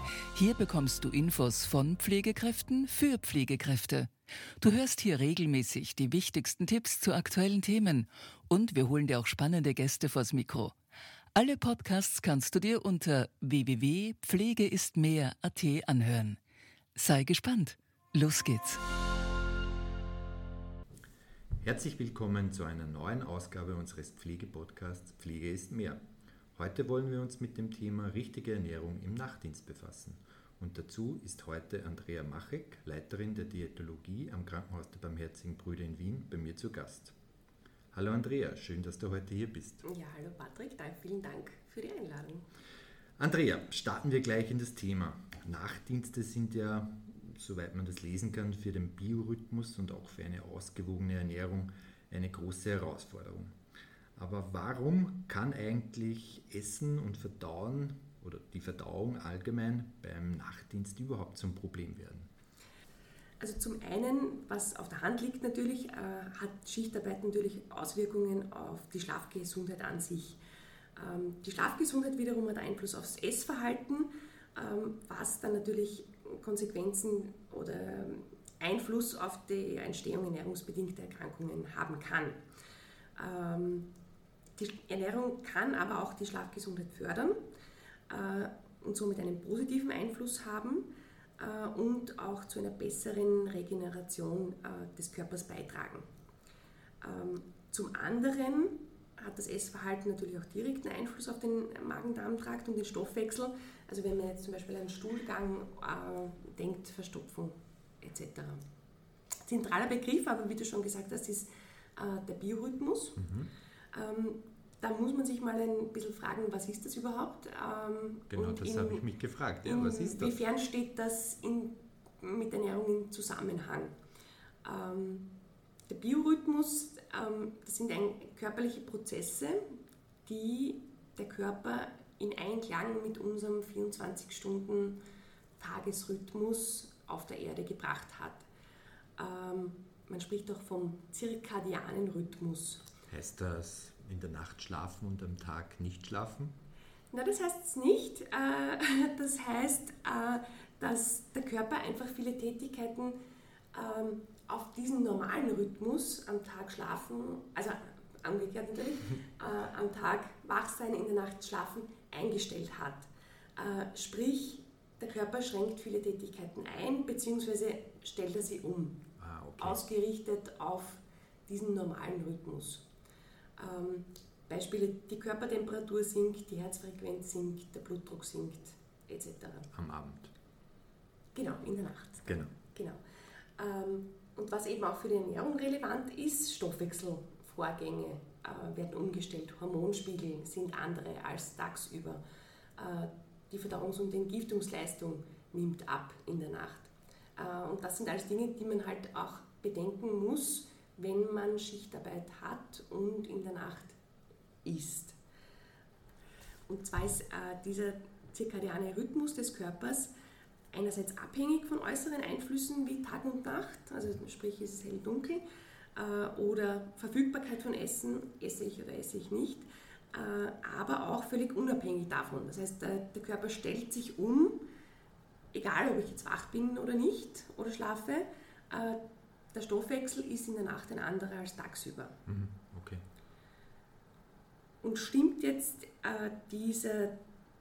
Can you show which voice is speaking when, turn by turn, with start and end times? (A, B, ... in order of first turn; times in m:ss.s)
0:00.3-0:10.8 A
0:11.3-0:16.4 A
0:17.0-0:18.8 A
0:21.6-0:26.0 B
0:26.6-0:37.2 B
0:37.9-0:39.8 B
0:39.8-0:42.4 C
0:43.2-0:53.6 B
0:54.2-1:02.3 B
1:03.4-1:10.4 C
1:11.0-1:22.4 C
1:23.2-1:23.9 C
1:24.6-1:27.4 C
1:28.1-1:36.1 C
1:37.0-1:48.6 C
1:49.5-1:53.2 C
1:53.2-1:53.5 B
1:53.9-1:59.1 C
1:58.3-2:00.4 B
1:59.6-2:04.0 C
2:04.6-2:05.3 C
2:05.9-2:09.6 C
2:10.2-2:15.0 C
2:15.6-2:18.5 C
2:19.2-2:22.9 C
2:23.1-2:26.6 B
2:27.1-2:33.2 C
2:33.7-2:49.0 C
2:49.2-2:49.8 B
2:49.6-2:52.9 C
2:53.6-2:59.7 C
2:59.7-3:00.3 B
3:01.3-3:03.0 C
3:02.2-3:02.5 B
3:03.6-3:12.2 C
3:12.8-3:24.0 C
3:24.6-3:25.2 C
3:26.7-3:30.1 C
3:30.7-3:35.4 C
3:36.0-3:44.7 C
3:45.5-3:49.0 C
3:49.5-3:52.2 C
3:52.3-3:53.0 B
3:54.8-3:57.2 C